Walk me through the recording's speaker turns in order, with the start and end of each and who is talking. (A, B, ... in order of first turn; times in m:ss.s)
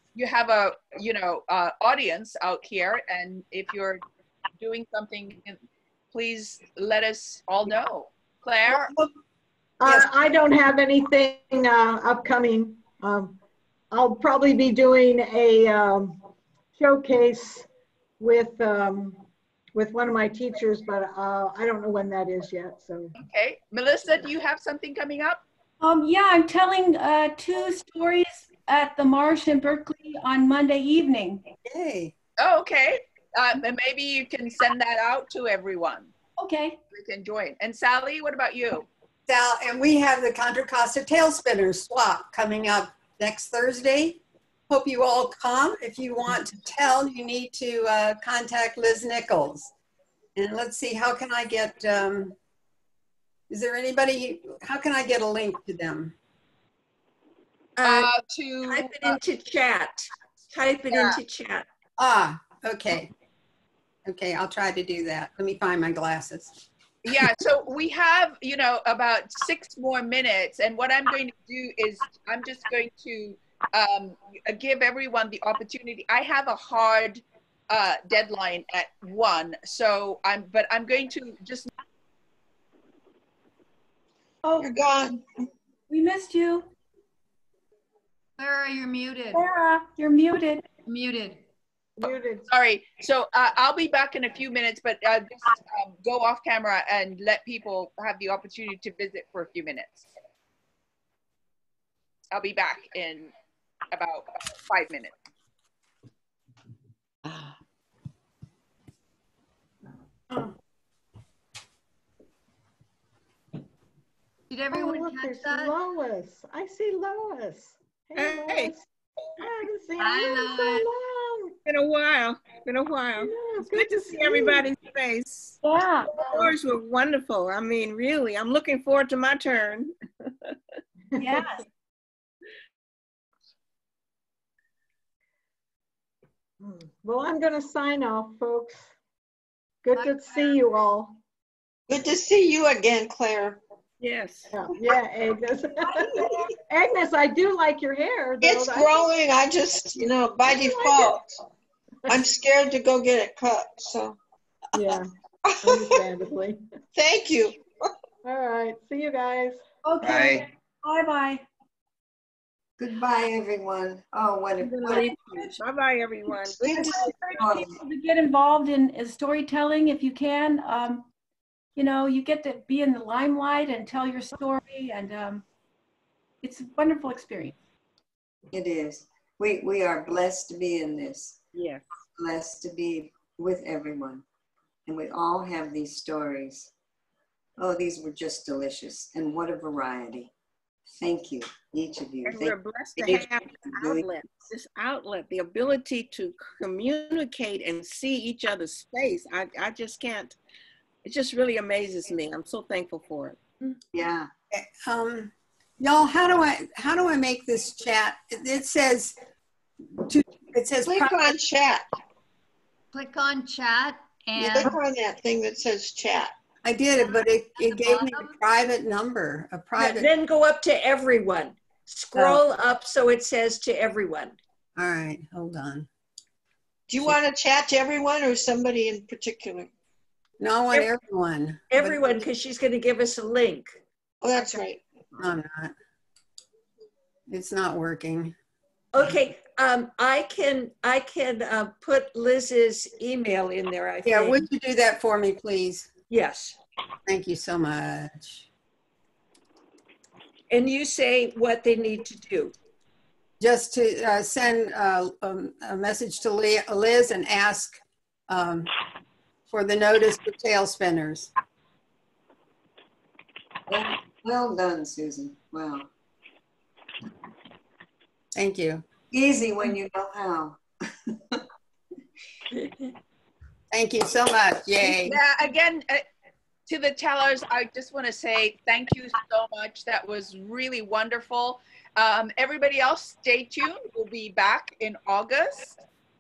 0:00.2-0:04.0 A
0:04.6-0:05.6 A
0:06.1-0:08.9 A
0:09.8-0:13.4 B
0:13.9-0:16.2 B
0:16.8-0:17.7 B
0:18.2-0:23.1 B
0:23.2-0:25.4 A
0:25.8-0:31.4 C
0:31.6-0:32.2 D
0:32.4-0:36.1 A
0:36.4-0:36.8 C
0:36.9-0:38.9 A
0:39.3-0:49.7 D
0:50.4-0:52.4 D
0:53.5-0:56.2 D
0:57.8-0:58.1 E
0:57.8-0:59.2 A
0:58.6-1:01.7 E
1:00.9-1:01.2 A
1:02.0-1:03.1 D
1:04.1-1:06.5 D
1:07.0-1:21.7 A
1:24.4-1:24.7 C
1:24.6-1:25.2 F
1:25.9-1:26.7 C
1:28.4-1:29.4 G
1:29.3-1:30.7 C
1:32.0-1:40.1 A
1:32.0-1:32.5 B
1:42.3-1:43.3 A
1:43.9-1:45.1 A
1:54.7-1:58.9 B
1:55.3-1:55.5 G
1:58.2-1:58.7 H
1:59.4-2:01.6 B
2:01.6-2:05.6 H
2:03.2-2:04.7 B
2:05.6-2:06.5 C
2:06.2-2:09.9 H
2:11.2-2:11.4 B
2:11.2-2:11.6 C
2:16.6-2:18.9 B
2:19.8-2:21.2 B
2:21.9-2:23.6 F
2:24.0-2:24.4 H
2:24.5-2:29.1 B
2:25.9-2:26.5 C
2:28.4-2:31.3 F
2:30.4-2:31.1 B
2:32.1-2:34.2 F
2:34.7-2:35.1 B
2:35.4-2:36.0 F
2:35.6-2:36.6 B
2:36.9-2:37.6 F
2:38.2-2:39.6 B
2:39.8-2:41.4 C
2:40.0-2:40.4 F
2:42.8-2:45.1 I
2:44.7-2:45.6 C
2:44.7-2:47.1 H
2:46.3-2:47.3 F
2:46.7-2:51.1 C
2:47.3-2:47.8 I
2:51.8-2:55.5 C
2:56.4-2:57.6 C
2:58.5-3:01.4 I
3:01.6-3:01.8 H
3:02.2-3:04.2 I
3:04.9-3:06.7 I
3:07.6-3:10.3 I
3:11.0-3:14.1 I
3:12.2-3:20.4 H
3:21.0-3:23.4 H
3:23.9-3:24.3 I
3:24.5-3:29.2 D
3:30.0-3:31.4 D
3:30.8-3:31.9 F
3:32.9-3:34.6 G
3:34.4-3:36.3 F
3:36.6-3:40.1 D
3:39.8-3:44.4 E
3:42.2-3:42.4 D
3:44.8-3:45.9 D
3:46.9-3:49.7 F
3:50.4-3:52.1 D
3:51.7-3:53.8 E
3:54.2-3:54.8 F
3:54.3-3:54.7 E
3:55.2-3:55.8 D
3:57.3-3:58.4 D
3:58.9-4:04.4 E
4:04.0-4:05.9 D
4:06.1-4:06.6 E
4:07.1-4:08.5 D
4:10.5-4:12.5 E
4:13.4-4:18.7 D
4:19.5-4:21.3 D
4:23.7-4:25.9 I
4:28.4-4:28.9 D
4:29.1-4:30.6 I
4:33.7-4:35.2 D
4:34.8-4:36.0 A
4:36.7-4:45.8 A